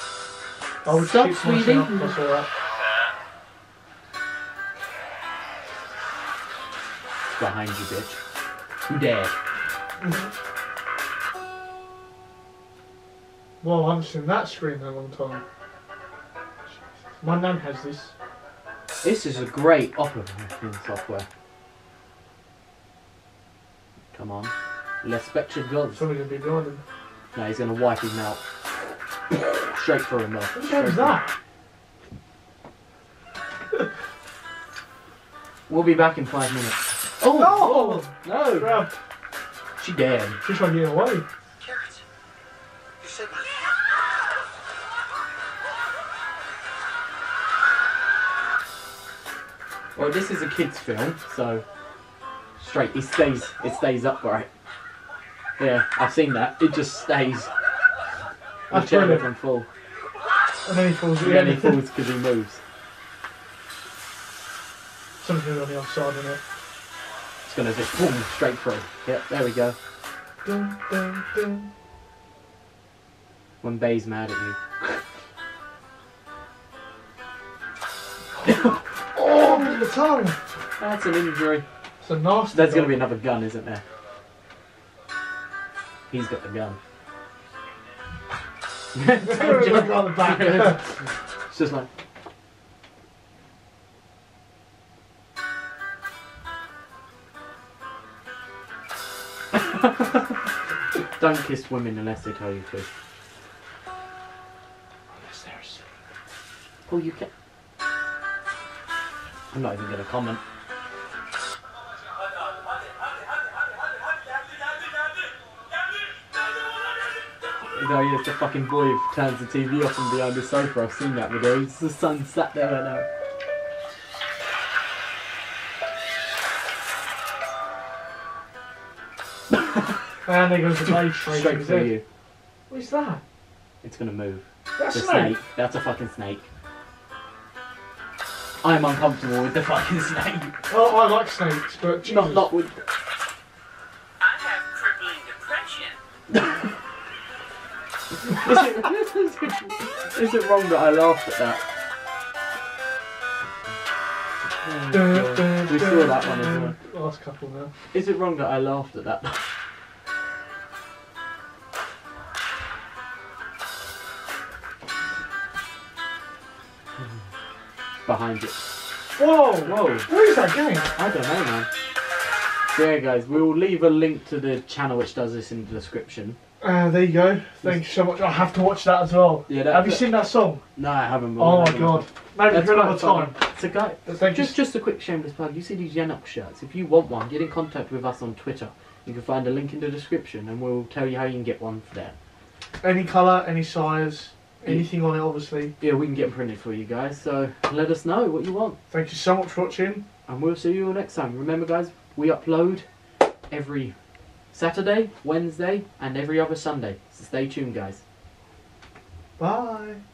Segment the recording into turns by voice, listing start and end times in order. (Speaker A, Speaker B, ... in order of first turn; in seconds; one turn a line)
Speaker A: 0.8-2.5
Speaker B: 0.9-2.2
Speaker B: 7.4-8.2
Speaker B: 8.9-9.3
Speaker A: 13.6-15.4
Speaker A: 17.2-18.1
Speaker B: 19.0-21.3
Speaker B: 24.1-26.1
Speaker A: 25.9-26.8
Speaker B: 27.3-28.4
Speaker B: 29.3-31.2
Speaker A: 30.5-31.3
Speaker B: 35.7-38.9
Speaker A: 37.3-38.9
Speaker B: 39.8-40.4
Speaker A: 40.4-41.2
Speaker C: 41.6-42.0
Speaker C: 43.0-43.5
Speaker B: 50.0-51.6
Speaker B: 52.6-54.5
Speaker B: 55.6-57.5
Speaker A: 58.7-59.3
Speaker B: 58.7-59.7
Speaker A: 60.6-61.8
Speaker B: 61.2-62.6
Speaker A: 65.2-66.4
Speaker B: 67.5-69.8
Speaker A: 70.4-71.7
Speaker B: 73.6-74.8
Speaker B: 78.4-78.8
Speaker A: 78.5-80.4
Speaker B: 79.4-79.8
Speaker B: 80.8-81.7
Speaker A: 82.0-83.0
Speaker B: 82.5-83.8
Speaker B: 86.1-86.8
Speaker B: 88.9-91.9
Speaker A: 89.2-90.8
Speaker B: 99.5-100.2
Speaker B: 101.2-102.9
Speaker A: 105.3-105.7
Speaker B: 106.9-107.3
Speaker B: 109.5-110.4
Speaker B: 117.7-123.1
Speaker A: 130.2-131.9
Speaker B: 130.9-132.0
Speaker A: 132.7-133.2
Speaker B: 133.8-136.5
Speaker A: 134.8-135.4
Speaker B: 138.6-140.6
Speaker A: 140.7-142.5
Speaker B: 142.0-142.8
Speaker C: 144.2-146.0
Speaker B: 146.3-146.7
Speaker B: 148.2-151.6
Speaker B: 154.6-156.8
Speaker A: 154.9-157.7
Speaker B: 157.9-159.4
Speaker B: 168.0-168.7
Speaker A: 169.2-170.9
Speaker B: 169.6-170.1
Speaker B: 170.9-171.7
Speaker B: 172.7-176.4
Speaker A: 176.6-180.6
Speaker B: 179.5-180.2
Speaker B: 180.7-192.2
Speaker A: 181.3-183.4
Speaker A: 184.0-184.6
Speaker A: 192.8-195.7
Speaker B: 195.8-198.8
Speaker A: 198.9-200.0
Speaker B: 200.3-202.9
Speaker B: 203.5-203.9
Speaker B: 204.5-208.0
Speaker A: 209.4-210.0